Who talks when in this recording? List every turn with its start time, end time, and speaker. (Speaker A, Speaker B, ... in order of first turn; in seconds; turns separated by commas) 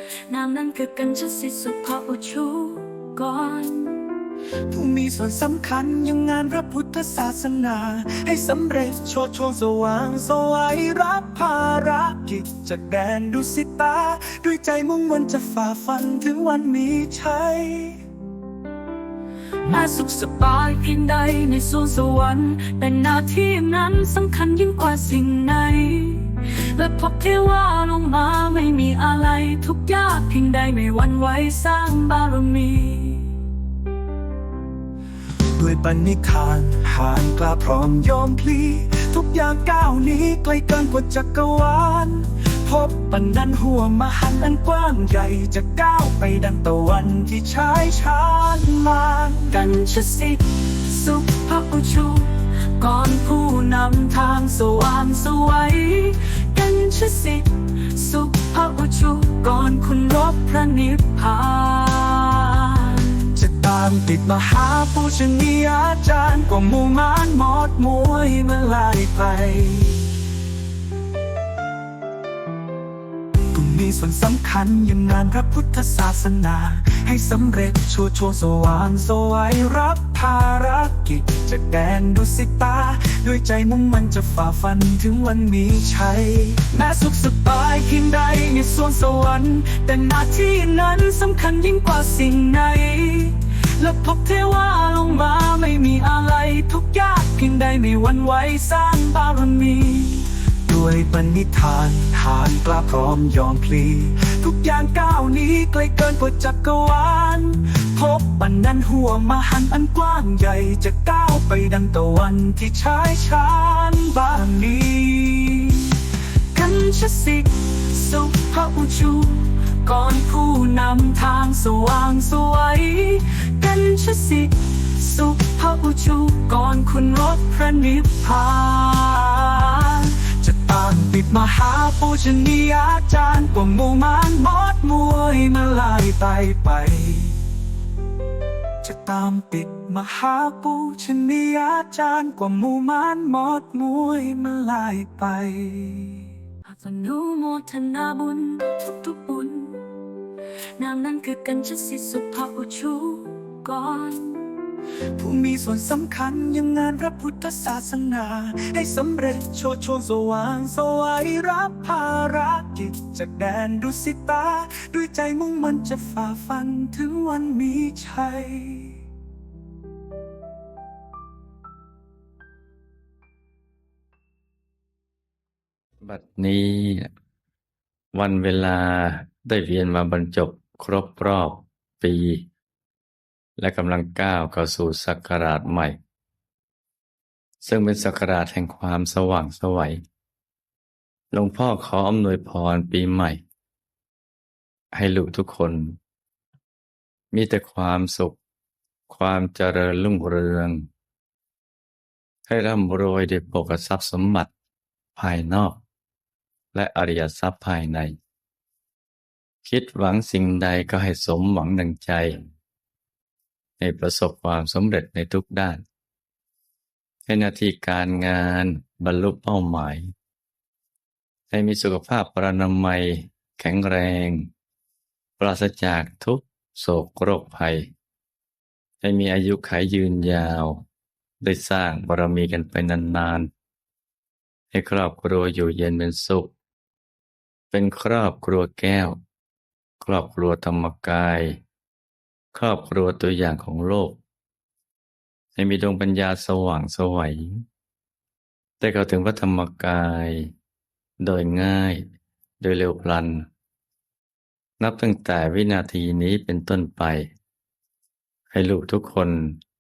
Speaker A: 0.3-4.1, Speaker B: 4.7-18.0, Speaker A: 19.7-33.3, Speaker B: 35.6-49.6, Speaker A: 49.6-54.0, Speaker B: 50.9-51.4, Speaker B: 53.0-55.9, Speaker A: 54.6-60.6, Speaker B: 56.8-57.2, Speaker B: 58.8-61.2, Speaker A: 61.2-63.1, Speaker B: 63.3-70.0, Speaker B: 73.5-116.0, Speaker A: 116.6-117.9, Speaker B: 116.8-119.2, Speaker A: 119.0-119.7, Speaker B: 119.8-122.8, Speaker A: 121.1-127.5, Speaker B: 126.7-128.4, Speaker A: 128.4-130.0, Speaker B: 130.0-137.4, Speaker B: 138.8-146.3, Speaker A: 146.7-149.9, Speaker A: 150.8-154.4, Speaker B: 155.2-169.0, Speaker C: 176.0-177.1, Speaker C: 178.1-182.5, Speaker C: 183.6-186.0, Speaker C: 187.6-190.0, Speaker C: 191.3-193.4, Speaker C: 194.9-196.0, Speaker C: 197.3-198.4, Speaker C: 199.1-200.9, Speaker C: 202.5-204.5, Speaker C: 205.2-205.8, Speaker C: 206.7-208.1, Speaker C: 209.7-212.4, Speaker C: 213.8-215.8, Speaker C: 217.3-220.1, Speaker C: 221.5-224.5, Speaker C: 225.4-227.9, Speaker C: 229.0-230.9, Speaker C: 231.4-233.5, Speaker C: 234.7-236.5, Speaker C: 237.7-239.2, Speaker C: 240.0-241.6, Speaker C: 242.5-244.2, Speaker C: 245.6-247.6, Speaker C: 248.8-250.5, Speaker C: 251.2-252.0, Speaker C: 252.6-253.5, Speaker C: 254.8-257.3, Speaker C: 258.5-259.6